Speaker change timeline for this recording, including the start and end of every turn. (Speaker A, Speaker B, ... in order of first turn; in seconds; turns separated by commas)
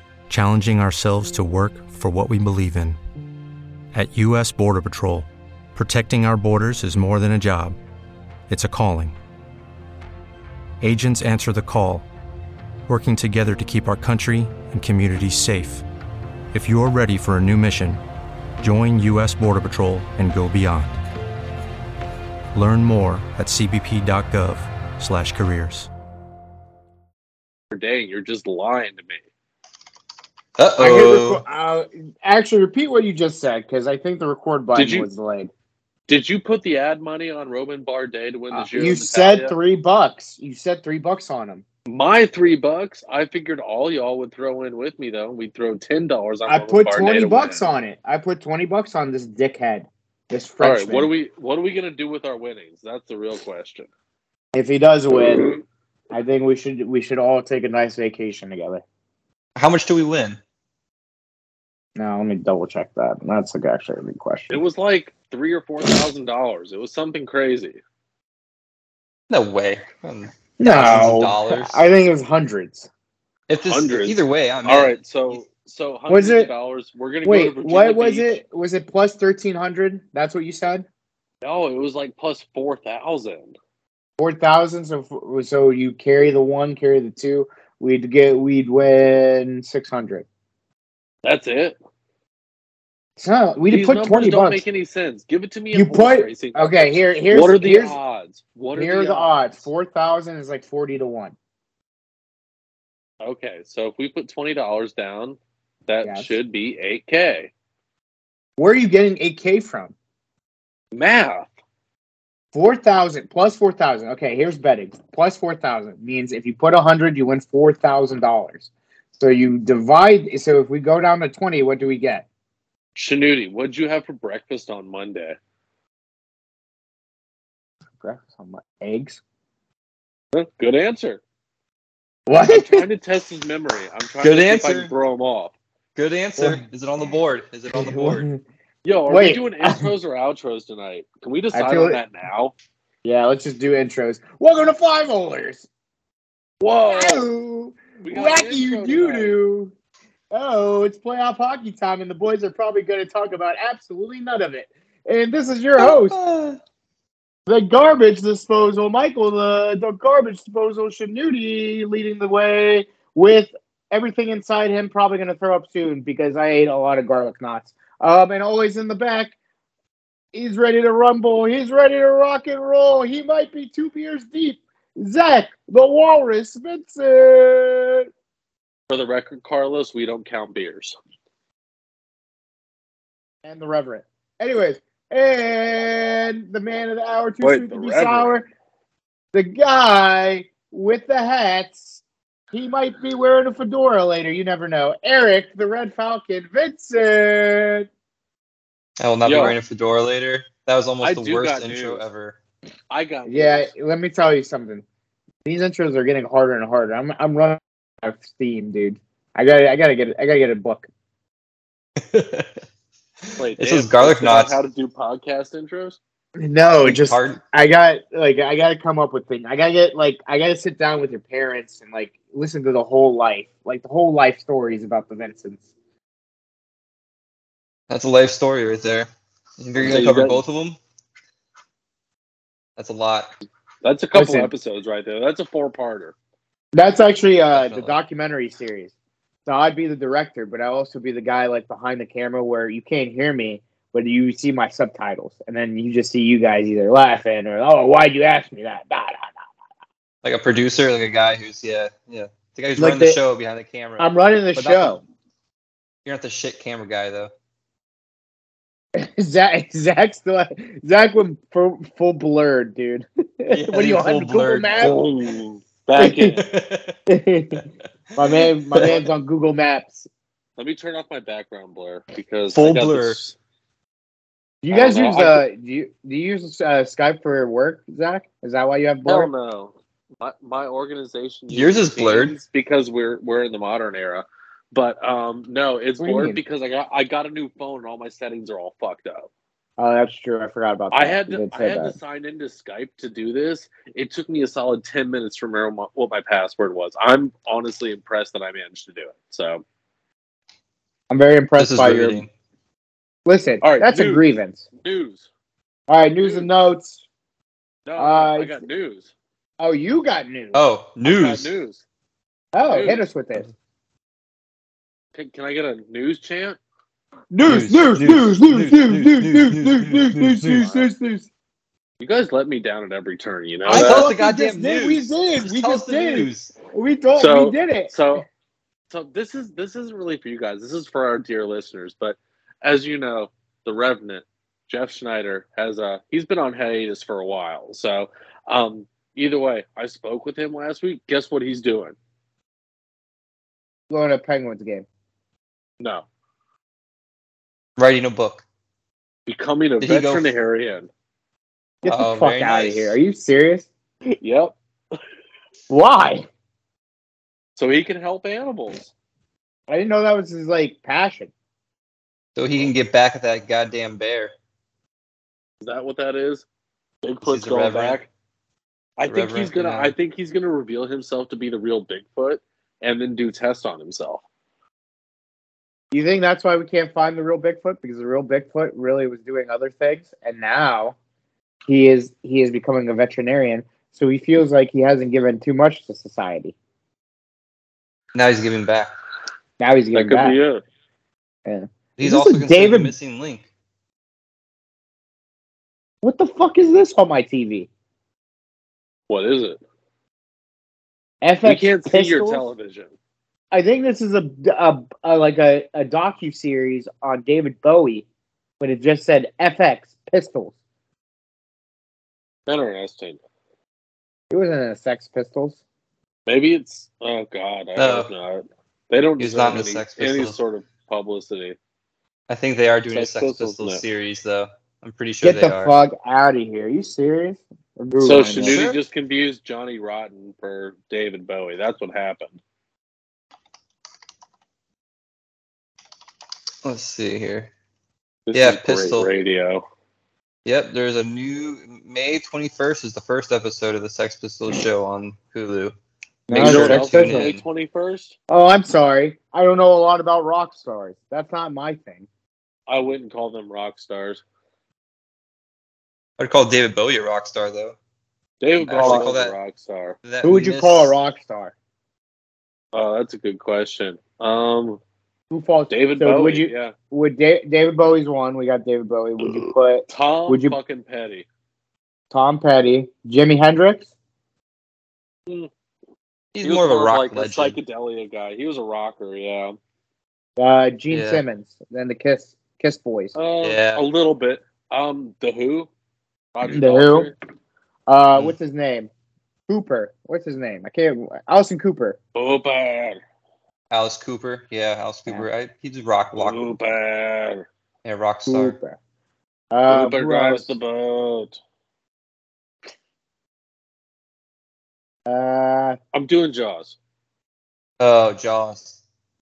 Speaker A: 0.3-3.0, Speaker A: 3.9-7.8, Speaker A: 8.5-9.2, Speaker A: 10.8-12.1, Speaker A: 12.9-15.8, Speaker A: 16.5-18.0, Speaker A: 18.6-21.0, Speaker A: 22.5-25.9, Speaker B: 27.7-29.2, Speaker C: 30.6-31.4, Speaker D: 30.8-35.5, Speaker B: 34.7-35.1, Speaker B: 36.1-39.5, Speaker D: 38.5-41.6, Speaker B: 41.9-47.6, Speaker D: 46.5-51.1, Speaker B: 50.6-53.9, Speaker D: 54.5-55.6, Speaker D: 56.1-58.8, Speaker C: 59.5-60.4, Speaker D: 62.0-64.6, Speaker B: 64.5-67.8, Speaker C: 69.3-71.8, Speaker D: 70.6-72.9, Speaker C: 73.5-75.4, Speaker B: 73.7-78.3, Speaker D: 76.1-76.5, Speaker D: 77.2-80.8, Speaker B: 81.4-83.5, Speaker D: 84.2-90.2, Speaker B: 91.2-91.8, Speaker D: 93.2-94.6, Speaker B: 93.7-99.4, Speaker D: 95.7-98.0, Speaker D: 98.7-101.3, Speaker B: 103.2-107.5, Speaker D: 106.0-106.3, Speaker D: 108.6-109.9, Speaker B: 110.9-111.5, Speaker D: 112.5-122.2, Speaker B: 123.0-125.4, Speaker D: 128.0-129.2, Speaker B: 130.3-131.2, Speaker D: 132.3-132.8, Speaker B: 132.5-135.6, Speaker C: 134.2-134.9, Speaker C: 135.9-138.3, Speaker D: 136.4-136.6, Speaker D: 137.7-138.4, Speaker B: 138.8-142.5, Speaker D: 139.1-139.9, Speaker D: 141.5-142.0, Speaker D: 143.0-145.7, Speaker B: 146.6-147.3, Speaker D: 146.8-149.7, Speaker B: 148.0-149.4, Speaker D: 150.3-156.2, Speaker C: 155.8-156.6, Speaker D: 157.5-169.3, Speaker D: 170.3-178.1, Speaker B: 178.9-180.9, Speaker D: 183.4-188.4, Speaker B: 187.4-188.3, Speaker D: 189.3-197.9, Speaker C: 199.0-202.4, Speaker B: 199.2-199.6, Speaker B: 201.0-202.1, Speaker B: 202.9-203.7, Speaker D: 203.2-204.8, Speaker D: 205.4-210.9, Speaker C: 212.0-212.6, Speaker C: 213.2-214.6, Speaker B: 213.4-216.0, Speaker D: 216.4-225.7, Speaker C: 216.8-217.4, Speaker C: 227.9-230.8, Speaker B: 229.8-230.4, Speaker C: 232.8-233.3, Speaker B: 233.8-236.1, Speaker D: 234.1-234.5, Speaker D: 236.7-238.9, Speaker C: 237.5-238.0, Speaker D: 239.4-249.4, Speaker C: 250.2-255.0, Speaker D: 252.8-253.2, Speaker D: 254.0-255.0, Speaker C: 256.0-257.3, Speaker D: 258.9-264.9, Speaker C: 263.5-265.0, Speaker B: 264.8-266.4, Speaker D: 265.9-266.3, Speaker C: 266.3-267.0, Speaker D: 267.1-267.6, Speaker D: 268.1-270.1, Speaker B: 268.8-269.1, Speaker B: 270.6-273.3, Speaker C: 272.5-273.2, Speaker D: 274.6-279.3, Speaker B: 274.7-275.4, Speaker B: 279.1-289.3, Speaker C: 281.5-282.3, Speaker D: 286.0-286.4, Speaker D: 289.8-291.9, Speaker B: 290.9-299.6, Speaker D: 301.1-302.2, Speaker C: 301.6-302.3, Speaker D: 303.2-304.6, Speaker B: 303.6-305.3, Speaker D: 305.9-307.0, Speaker B: 306.2-306.5, Speaker B: 307.9-309.1, Speaker D: 308.0-308.6, Speaker D: 309.6-310.6, Speaker C: 310.5-311.5, Speaker B: 311.0-311.8, Speaker D: 312.5-313.5, Speaker B: 312.6-313.0, Speaker B: 315.1-316.6, Speaker D: 317.3-321.3, Speaker C: 317.4-320.7, Speaker B: 320.6-320.9, Speaker B: 322.0-324.1, Speaker C: 323.7-326.5, Speaker D: 323.7-328.2, Speaker B: 327.2-328.2, Speaker B: 328.9-341.9, Speaker D: 343.9-344.9, Speaker B: 345.8-346.1, Speaker C: 347.8-348.4, Speaker B: 349.3-350.9, Speaker C: 349.8-350.3, Speaker D: 351.8-353.7, Speaker C: 351.8-352.9, Speaker B: 354.2-354.5, Speaker D: 355.7-356.3, Speaker B: 357.6-358.9, Speaker D: 359.7-361.3, Speaker C: 362.4-364.3, Speaker B: 365.6-366.4, Speaker B: 367.0-368.1, Speaker C: 367.2-368.0, Speaker B: 369.0-374.2, Speaker C: 369.1-369.9, Speaker D: 375.9-380.9, Speaker D: 381.7-386.5, Speaker C: 388.1-388.9, Speaker D: 389.6-390.4, Speaker B: 389.9-390.6, Speaker D: 391.4-392.9, Speaker C: 392.0-393.4, Speaker D: 396.0-397.7, Speaker B: 399.1-399.6, Speaker D: 401.2-402.5, Speaker B: 401.4-402.9, Speaker D: 403.5-408.0, Speaker D: 408.6-410.5, Speaker B: 412.5-413.2, Speaker D: 414.3-415.6, Speaker B: 416.2-421.6, Speaker C: 417.8-418.1, Speaker C: 419.2-420.4, Speaker C: 422.3-425.8, Speaker B: 422.9-423.8, Speaker D: 425.2-428.6, Speaker B: 428.0-432.4, Speaker C: 428.4-428.8, Speaker C: 436.6-437.5, Speaker B: 438.3-439.6, Speaker C: 438.3-439.1, Speaker C: 440.4-445.8, Speaker D: 446.3-447.3, Speaker C: 446.3-447.4, Speaker B: 446.3-448.1, Speaker D: 448.3-452.1, Speaker B: 452.7-454.2, Speaker C: 456.2-457.8, Speaker B: 458.4-460.0, Speaker C: 458.6-459.4, Speaker D: 458.8-459.1, Speaker C: 460.0-461.0, Speaker D: 460.2-461.5, Speaker B: 462.7-464.8, Speaker D: 465.3-470.6, Speaker B: 465.7-466.7, Speaker B: 469.9-471.2, Speaker D: 472.1-473.9, Speaker C: 476.3-477.6, Speaker B: 476.4-479.6, Speaker D: 480.4-483.1, Speaker C: 480.9-481.2, Speaker B: 483.1-485.7, Speaker C: 483.4-483.8, Speaker B: 486.3-487.1, Speaker D: 486.4-487.1, Speaker D: 487.9-488.9, Speaker D: 489.5-492.0, Speaker B: 492.1-493.0, Speaker C: 493.7-496.4, Speaker B: 496.2-497.4, Speaker C: 497.8-498.6, Speaker D: 498.2-498.8, Speaker D: 499.5-500.6, Speaker B: 499.7-501.4, Speaker D: 505.1-505.8, Speaker B: 505.9-506.7, Speaker C: 507.8-508.8